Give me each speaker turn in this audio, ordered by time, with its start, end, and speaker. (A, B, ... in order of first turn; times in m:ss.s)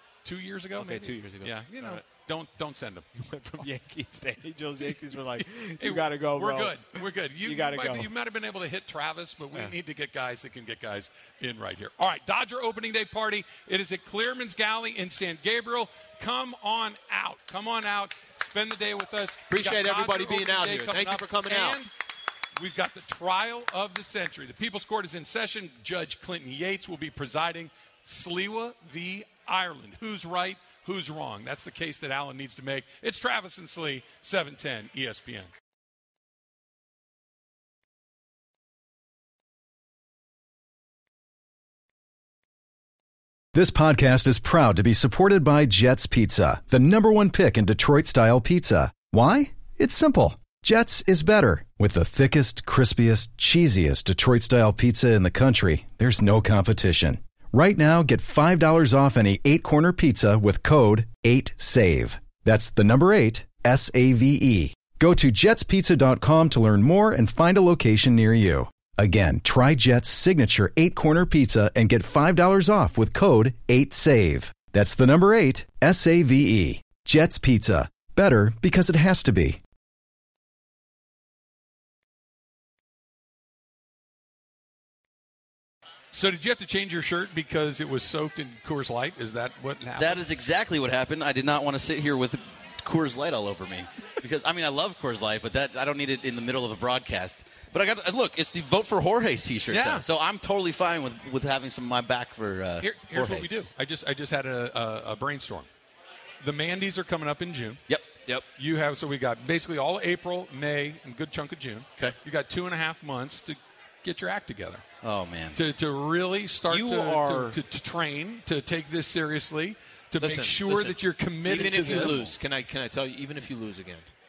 0:00.2-0:03.0 A
0:00.8-0:02.0 B
0:03.2-0:06.8 B
0:05.4-0:21.9 A
0:07.4-0:08.1 B
0:19.5-0:21.8 B
0:22.6-0:35.5 A
0:43.5-1:19.6 C
1:26.1-1:30.2 A
1:30.0-1:43.5 D
1:39.7-1:40.0 A
1:42.8-1:45.7 A
1:46.4-1:47.8 A
1:48.6-1:54.8 A
1:55.0-1:55.6 D
1:55.5-2:02.3 A
1:56.7-1:57.6 B
2:00.2-2:04.1 B
2:01.5-2:02.4 D